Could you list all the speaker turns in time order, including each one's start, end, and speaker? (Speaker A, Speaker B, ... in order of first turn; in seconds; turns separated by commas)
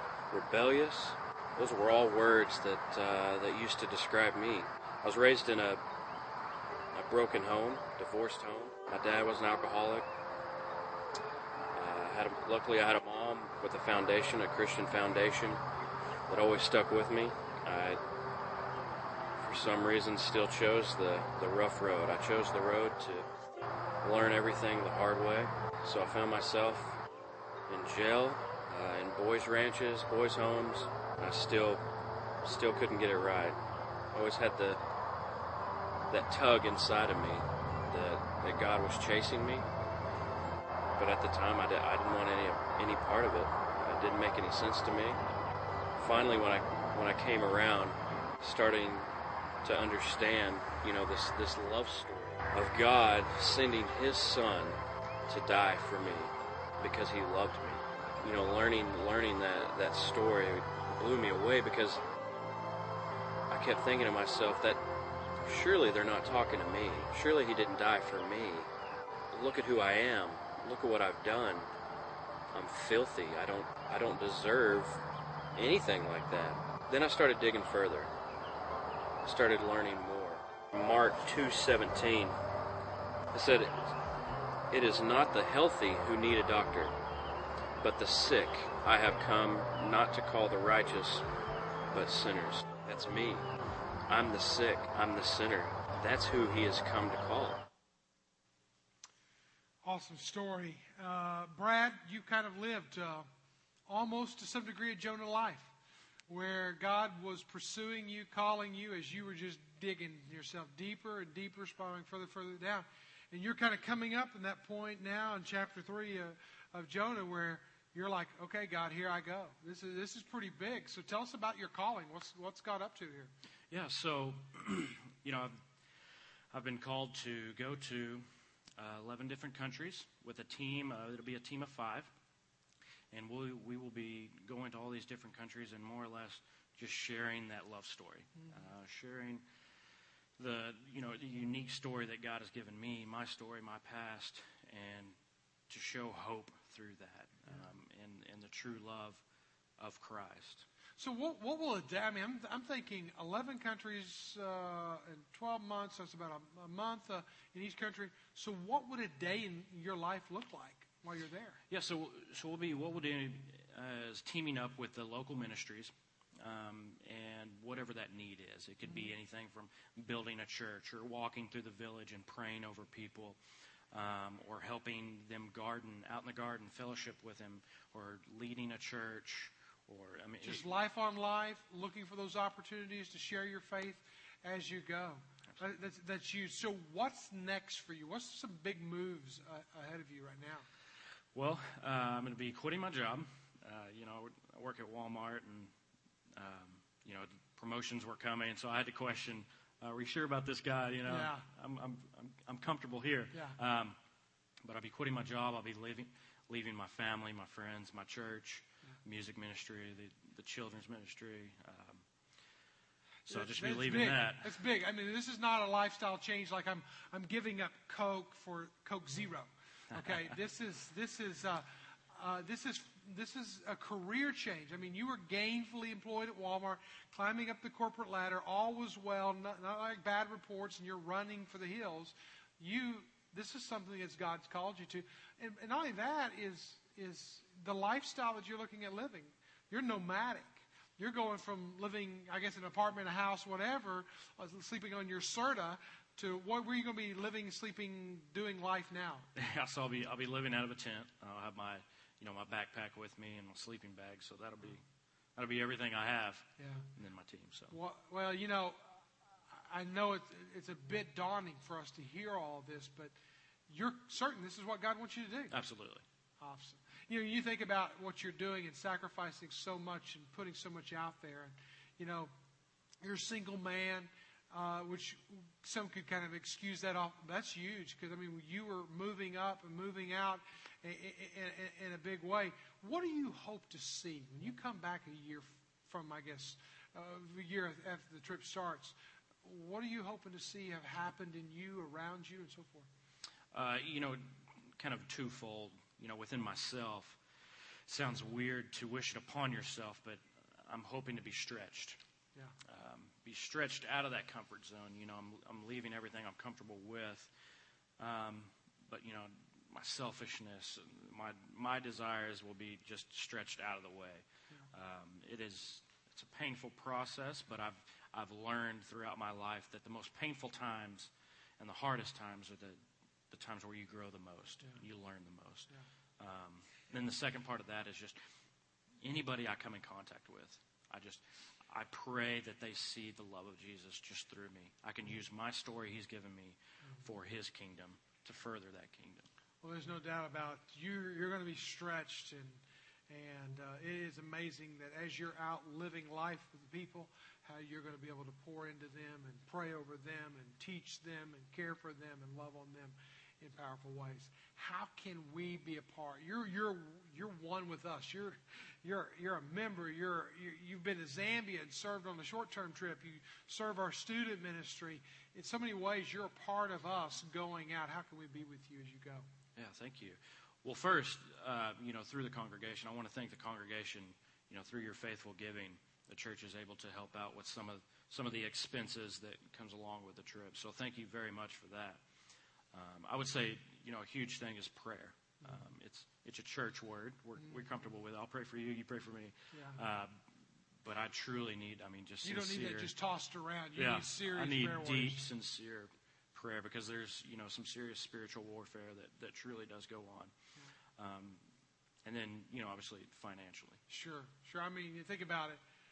Speaker A: 0.3-5.8, Speaker A: 6.9-10.1, Speaker A: 11.7-15.6, Speaker A: 16.3-18.0, Speaker A: 19.4-23.3, Speaker A: 24.0-27.0, Speaker A: 27.7-31.8, Speaker A: 32.4-33.6, Speaker A: 34.1-34.8, Speaker A: 36.1-39.7, Speaker A: 41.0-45.2, Speaker A: 46.0-49.1, Speaker A: 49.6-62.0, Speaker A: 63.5-64.8, Speaker A: 65.4-68.7, Speaker A: 69.3-71.7, Speaker A: 72.5-75.0, Speaker A: 75.5-78.1, Speaker A: 79.2-82.4, Speaker A: 83.3-83.9, Speaker A: 84.7-86.9, Speaker A: 87.8-91.2, Speaker A: 91.9-93.5, Speaker A: 94.1-97.7, Speaker B: 99.8-103.3, Speaker B: 103.9-105.7, Speaker B: 106.3-123.3, Speaker C: 123.7-125.6, Speaker C: 126.5-132.1, Speaker C: 133.1-139.4, Speaker C: 140.4-145.2, Speaker C: 145.7-149.2, Speaker C: 149.8-150.7, Speaker B: 151.0-161.6, Speaker C: 161.7-173.4, Speaker C: 173.9-180.7, Speaker B: 180.4-190.7, Speaker C: 191.3-195.7, Speaker C: 196.3-204.0, Speaker B: 201.1-201.5, Speaker C: 204.6-212.1, Speaker B: 213.3-249.3, Speaker C: 213.3-214.6, Speaker C: 249.3-254.8, Speaker C: 255.4-257.8, Speaker B: 256.6-256.9, Speaker B: 257.7-263.1, Speaker B: 263.7-265.6, Speaker C: 265.5-266.0, Speaker B: 266.4-272.3, Speaker B: 273.0-292.9, Speaker C: 293.5-297.2, Speaker C: 297.9-302.0, Speaker C: 302.7-307.3, Speaker C: 308.0-322.8, Speaker C: 323.3-328.2, Speaker C: 329.0-339.3, Speaker B: 339.6-369.3, Speaker C: 369.6-382.0, Speaker C: 382.7-390.2, Speaker B: 389.5-389.8, Speaker C: 390.8-392.9, Speaker B: 392.2-395.2, Speaker C: 393.8-400.3, Speaker C: 401.0-401.4, Speaker C: 402.1-403.8, Speaker B: 403.9-405.6